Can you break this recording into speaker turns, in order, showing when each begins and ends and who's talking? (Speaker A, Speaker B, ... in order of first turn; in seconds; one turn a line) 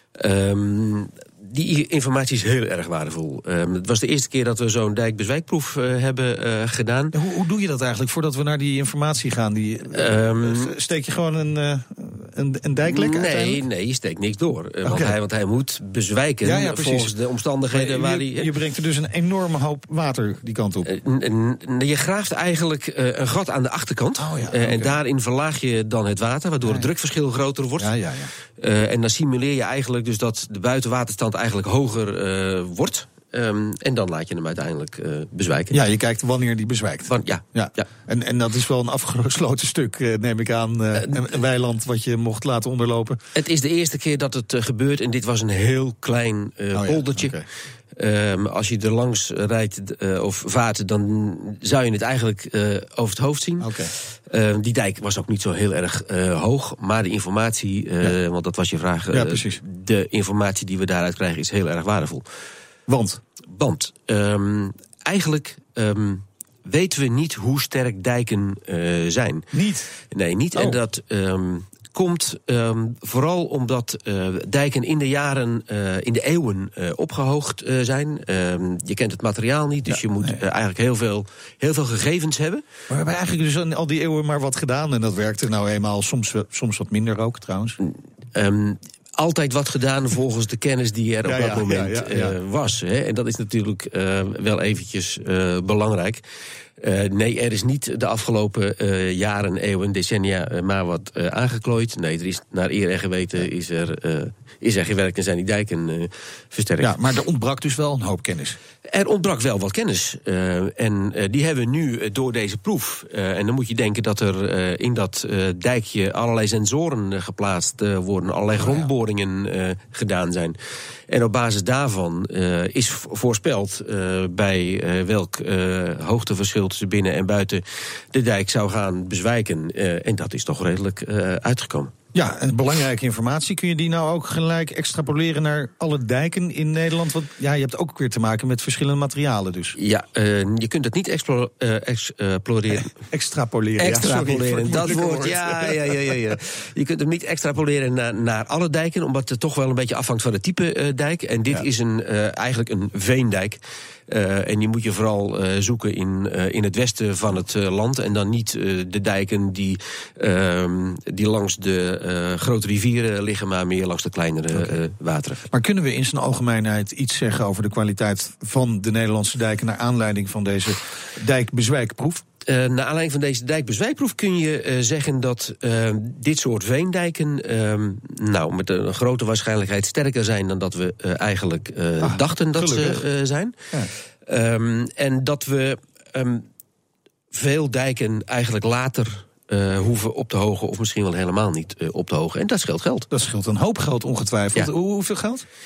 Speaker A: 0.2-7.1
Speaker B: 7.1-13.6
Speaker A: 9.9-10.7
Speaker A: 12.8-18.5
Speaker B: 14.8-15.2
Speaker B: 16.4-17.1
Speaker B: 17.7-20.9
Speaker A: 20.9-28.0
Speaker B: 24.2-25.0
Speaker B: 27.8-28.3
Speaker A: 28.6-35.8
Speaker B: 35.7-43.2
Speaker A: 37.1-37.9
Speaker A: 43.4-47.4
Speaker B: 46.7-47.5
Speaker A: 48.0-53.7
Speaker B: 53.6-53.9
Speaker A: 54.3-62.2
Speaker B: 59.1-59.6
Speaker B: 62.9-63.2
Speaker A: 63.5-69.5
Speaker B: 69.5-69.9
Speaker A: 70.1-82.6
Speaker B: 70.5-70.8
Speaker B: 79.9-80.4
Speaker B: 82.9-87.8
Speaker A: 87.8-96.2
Speaker B: 91.2-92.4
Speaker A: 96.8-107.0
Speaker B: 106.8-108.6
Speaker A: 108.9-120.6
Speaker B: 118.6-118.9
Speaker A: 121.1-131.9
Speaker B: 132.1-139.8
Speaker A: 139.8-142.9
Speaker B: 142.7-146.3
Speaker A: 143.8-165.5
Speaker B: 164.5-164.8
Speaker B: 165.5-172.2
Speaker A: 172.5-183.6
Speaker B: 182.0-183.0
Speaker A: 184.3-186.4
Speaker A: 187.3-193.1
Speaker B: 193.1-195.4